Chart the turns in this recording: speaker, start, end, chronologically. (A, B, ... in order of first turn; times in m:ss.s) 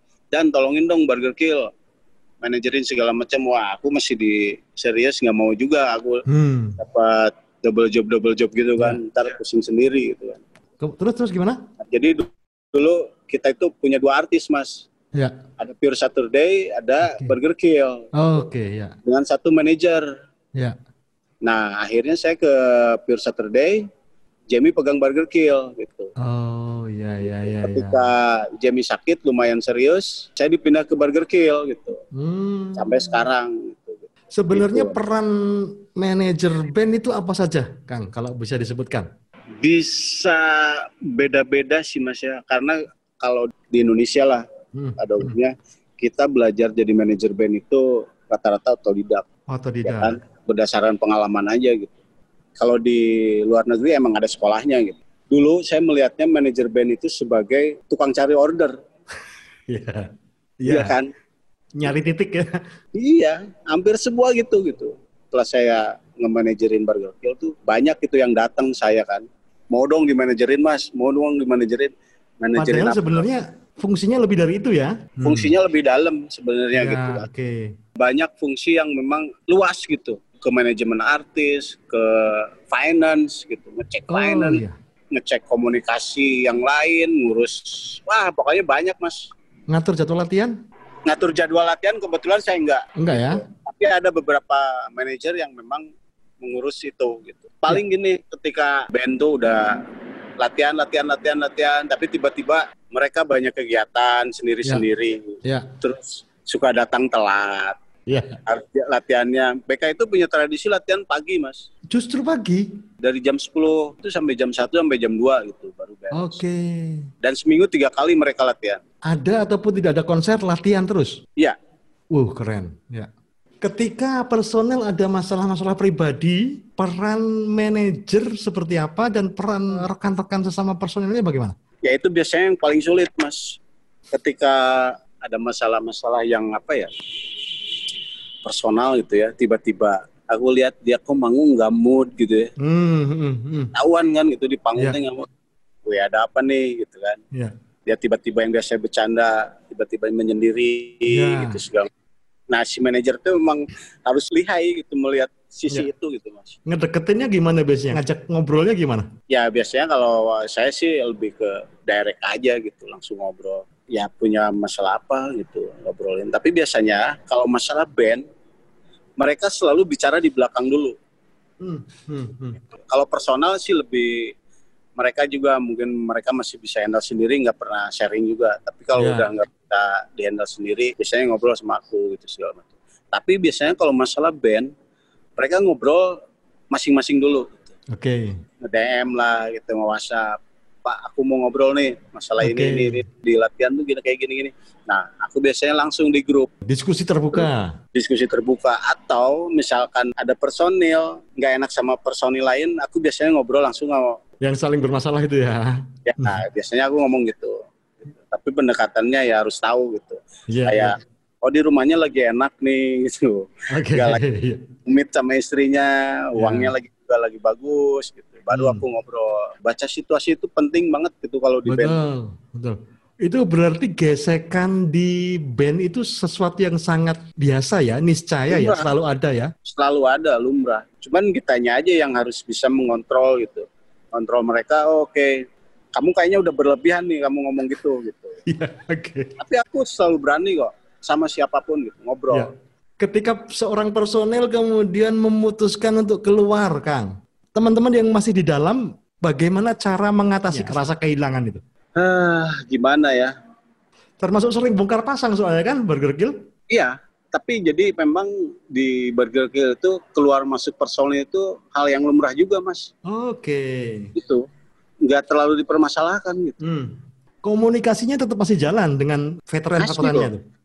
0:00.3-0:01.7 A
0:02.4-0:06.2 A
0:06.3-0:06.8 B
0:06.8-0:10.4 A
0:10.8-0:11.6 B
0:11.8-0:14.9 A
0:15.6-0:18.1 A
0:17.1-0:17.4 B
0:18.2-0:19.0 B
0:19.0-0:20.1 A
0:21.4-0:23.8 A
0:24.5-0:26.1 A
0:26.2-0:28.0 B
0:27.4-0:32.0 A
0:32.1-0:33.3 B
0:32.8-0:35.0 A
0:34.3-0:39.1 B
0:39.6-0:44.4 A
0:44.7-0:45.4 B
0:45.0-0:49.2 A
0:49.5-0:50.2 B
0:49.8-0:51.9 A
0:52.6-0:58.7 A
0:59.7-1:01.0 B
1:00.7-1:01.1 A
1:01.8-1:02.6 B
1:03.0-1:13.2 A
1:12.6-1:15.5 B
1:15.2-1:17.3 A
1:16.7-1:17.8 B
1:18.0-1:24.6 A
1:24.1-1:24.8 B
1:25.1-1:29.3 A
1:29.7-1:30.5 B
1:31.1-1:35.9 A
1:33.0-1:33.4 B
1:36.4-1:39.8 A
1:40.4-1:47.8 A
1:48.1-1:48.4 B
1:48.5-1:51.7 A
1:51.9-1:52.8 B
1:53.0-1:56.4 A
1:56.1-1:57.1 B
1:57.2-1:58.8 A
1:59.1-2:01.2 B
2:02.1-2:03.1 B
2:03.6-2:11.6 B
2:11.8-2:13.6 A
2:14.1-2:16.9 A
2:18.4-2:22.5 A
2:22.6-2:23.7 B
2:23.7-2:25.3 A
2:25.9-2:27.2 A
2:27.9-2:31.9 A
2:31.1-2:31.6 B
2:32.5-2:36.6 A
2:36.7-2:39.1 B
2:39.3-2:48.2 A
2:49.2-2:51.0 A
2:51.6-2:52.6 B
2:52.8-2:54.3 A
2:55.0-3:04.7 A
2:59.0-2:59.3 B
3:05.4-3:06.2 A
3:06.7-3:07.7 A
3:07.9-3:08.4 B
3:08.6-3:16.5 A
3:12.4-3:13.0 B
3:16.6-3:17.7 B
3:17.9-3:24.2 A
3:24.4-3:26.4 B
3:26.1-3:27.6 A
3:28.2-3:34.2 A
3:30.5-3:31.0 B
3:33.7-3:34.6 B
3:34.9-3:42.0 A
3:36.4-3:36.7 B
3:38.5-3:38.8 B
3:41.7-3:49.5 B
3:48.5-3:48.9 A
3:49.6-3:58.4 A
3:58.5-3:59.3 B
3:59.4-4:02.5 A
4:02.3-4:11.6 B
4:12.0-4:13.3 A
4:14.2-4:16.4 B
4:16.7-4:22.9 A
4:23.0-4:24.1 B
4:24.2-4:24.5 A
4:25.0-4:26.6 A
4:26.6-4:30.4 B
4:29.8-4:30.3 A